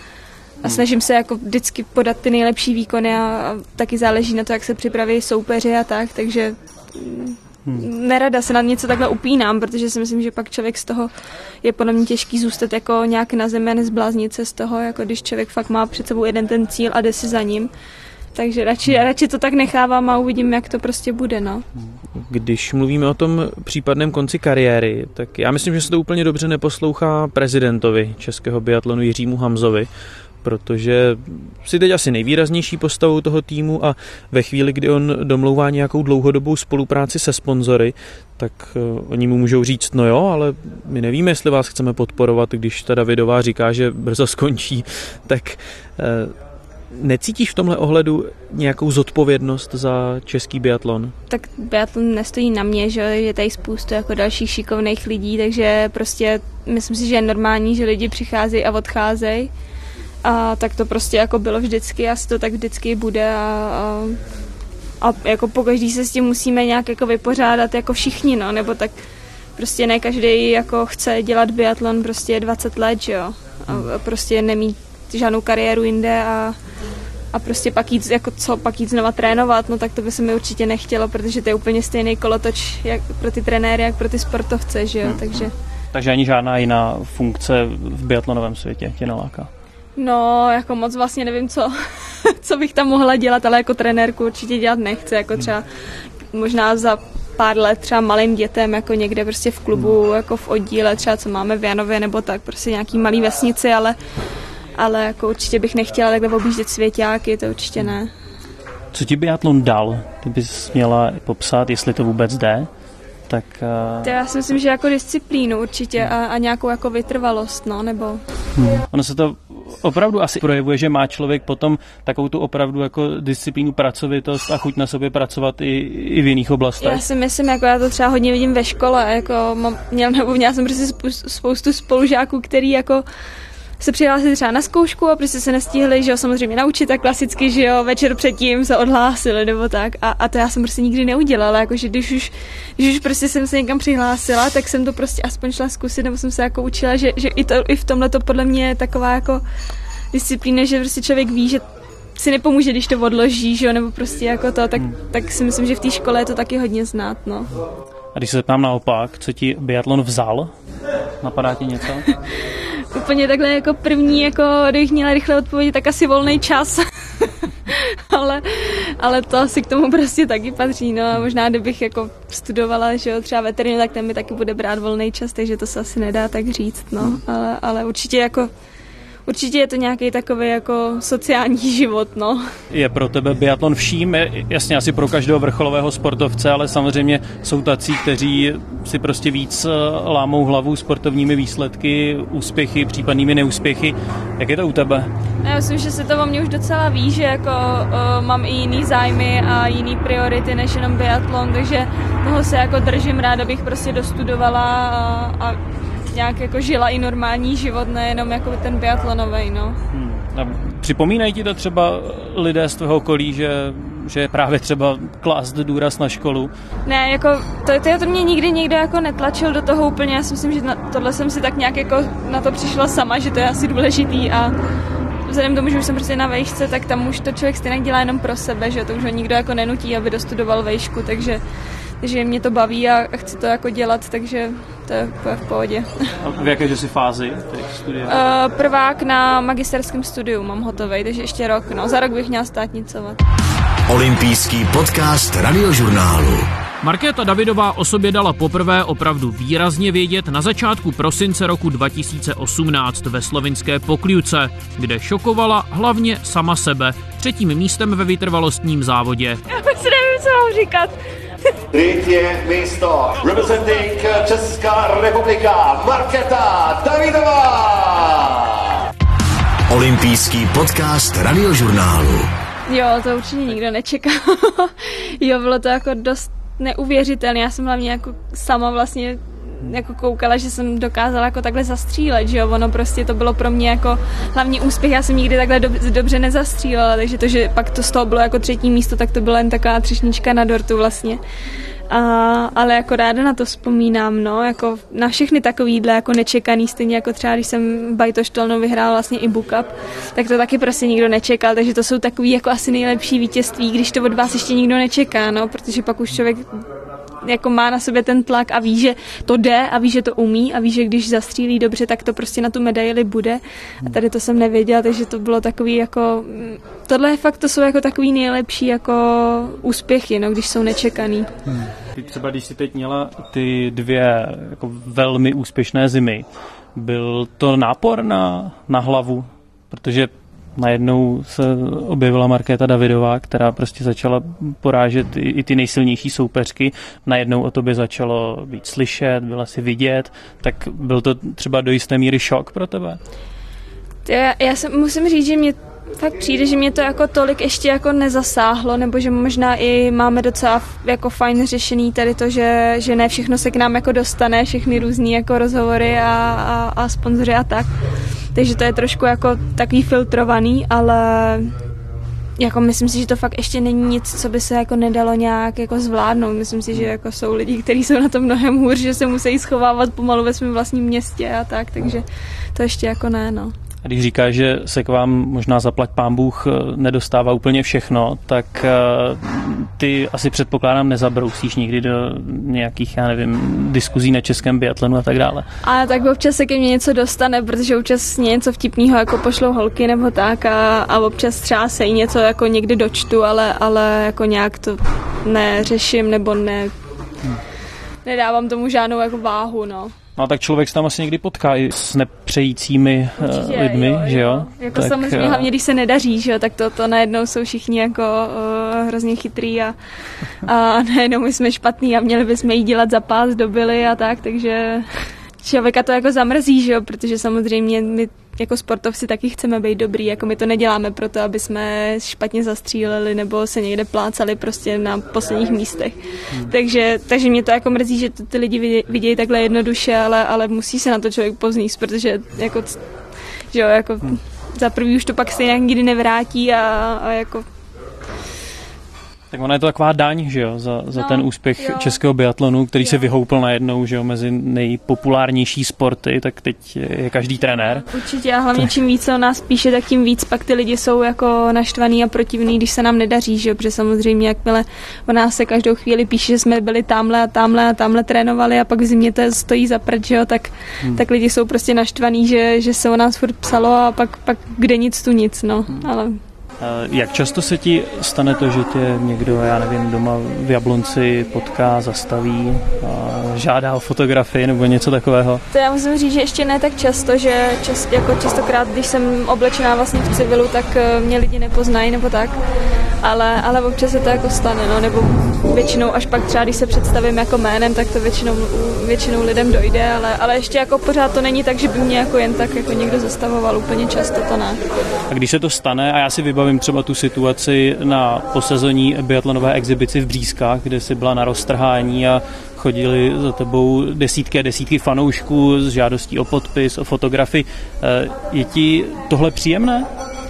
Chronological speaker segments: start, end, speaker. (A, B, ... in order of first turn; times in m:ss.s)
0:00.6-0:11.1 A
0:11.6-0:17.7 A
0:18.4-0:21.6 A
0:22.1-0:29.9 B
0:30.4-0:46.3 B
0:46.9-0:51.1 B
0:51.3-0:59.5 A
1:00.2-1:04.2 A
1:05.0-1:08.9 A
1:09.6-1:16.6 A
1:17.3-1:25.5 A
1:25.0-1:29.5 C
1:30.0-1:31.7 A
1:32.2-1:35.6 A
1:36.3-1:44.0 A
1:44.8-1:48.1 A
1:48.9-1:52.7 C
1:53.3-1:54.1 C
1:54.0-1:58.2 A
1:58.6-2:07.0 C
2:06.8-2:13.0 A
2:13.8-2:29.4 A
2:30.1-2:31.6 A
2:32.2-2:37.5 A
2:38.1-2:40.5 C
2:41.2-2:42.1 C
2:42.8-2:58.5 A
2:59.3-3:02.4 A
3:02.7-3:15.1 C
3:15.4-3:25.6 A
3:26.1-3:29.8 A
3:29.9-3:36.5 C
3:36.8-3:44.5 A
3:45.3-3:51.4 A
3:52.0-3:55.9 A
3:56.2-3:58.2 C
3:58.1-4:03.2 A
4:03.9-4:06.5 D
4:06.8-4:19.4 E
4:19.5-4:21.0 A
4:21.7-4:28.4 F
4:29.7-4:32.3 D
4:32.7-4:51.2 A
4:51.9-5:06.6 A
5:07.2-5:21.3 A
5:21.5-5:43.0 C
5:44.1-5:57.7 A
5:58.4-6:01.5 A
6:02.4-6:12.0 A
6:12.6-6:13.5 A
6:13.8-6:25.5 C
6:25.6-6:36.7 A
6:38.0-6:39.9 A
6:40.2-6:45.5 C
6:43.2-6:49.8 A
6:50.4-6:54.9 A
6:55.4-7:12.8 A
7:13.5-7:17.4 A
7:19.3-7:27.9 C
7:20.9-7:22.0 A
7:27.8-7:46.2 A
7:46.6-7:55.4 C
7:55.5-8:02.4 A
8:03.0-8:14.6 A
8:15.1-8:29.9 C